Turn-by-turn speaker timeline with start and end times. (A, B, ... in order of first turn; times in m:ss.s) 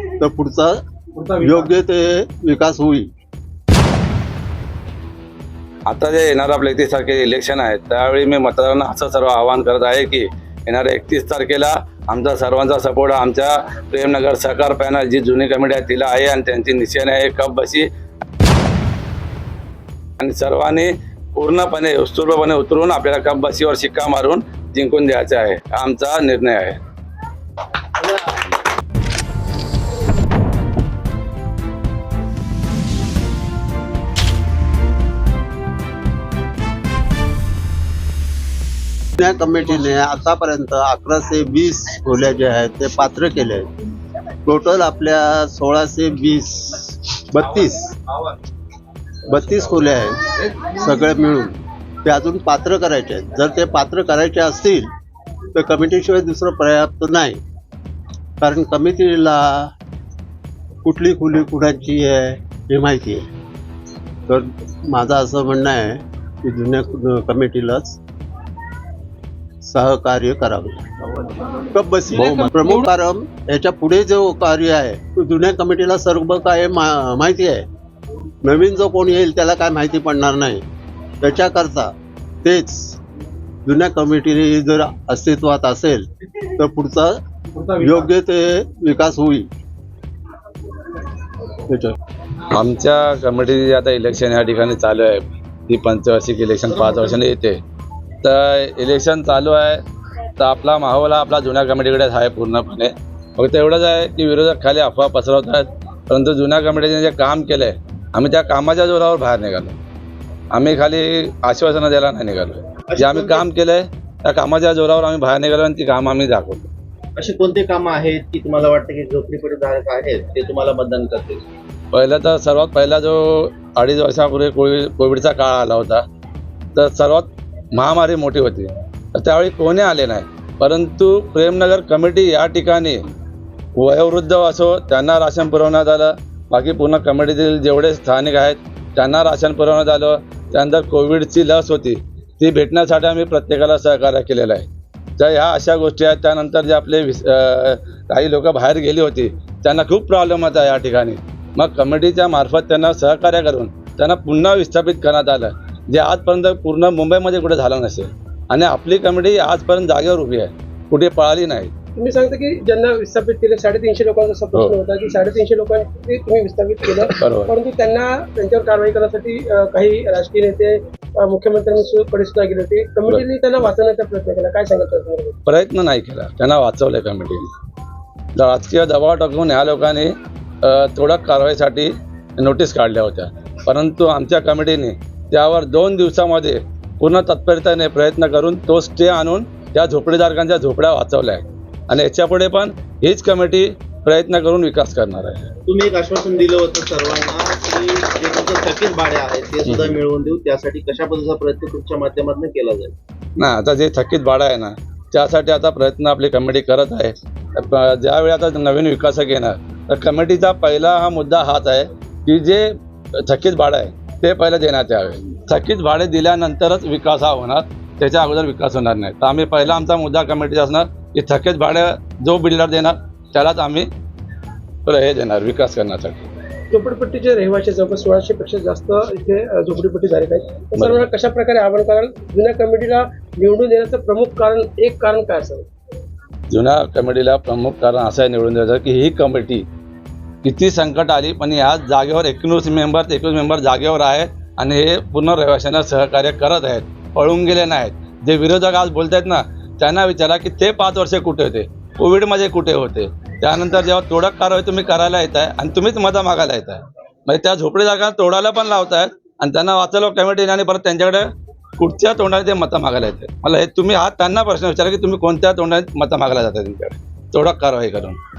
0:00.2-0:00.7 A
0:01.3-0:03.1 A
0:05.9-0:17.9 B
0:20.2-0:26.8 B
0:28.0-0:28.3 B
0:39.2-0:43.7 A
0:44.5-0:48.0 A
0:49.3-0:54.9 A
0:55.5-0:57.4 A
0:58.4-0:59.7 A
1:00.8-1:03.2 A
1:04.3-1:08.0 A
1:09.6-1:17.6 A
1:18.4-1:20.6 A
1:21.2-1:21.9 A
1:22.4-1:23.0 A
1:23.6-1:26.0 A
1:26.6-1:27.1 A
1:27.6-1:29.5 A
1:31.7-1:32.0 A
1:32.5-1:37.6 B
1:38.2-1:39.8 B
1:40.4-1:49.7 B
1:50.5-1:56.7 B
1:52.9-1:53.4 C
1:57.2-2:01.4 C
2:01.9-2:06.0 B
2:06.8-2:13.0 B
2:13.8-2:24.7 B
2:25.2-2:41.7 B
2:42.0-2:55.4 D
2:47.2-2:47.5 B
2:55.5-2:57.5 B
2:58.4-3:15.5 B
3:15.7-3:23.0 C
3:19.7-3:20.0 B
3:23.4-3:43.9 B
3:44.8-3:46.3 B
3:46.7-3:55.7 D
3:50.8-3:51.1 B
3:56.5-3:59.7 B
4:00.4-4:21.2 B
4:21.8-4:28.2 B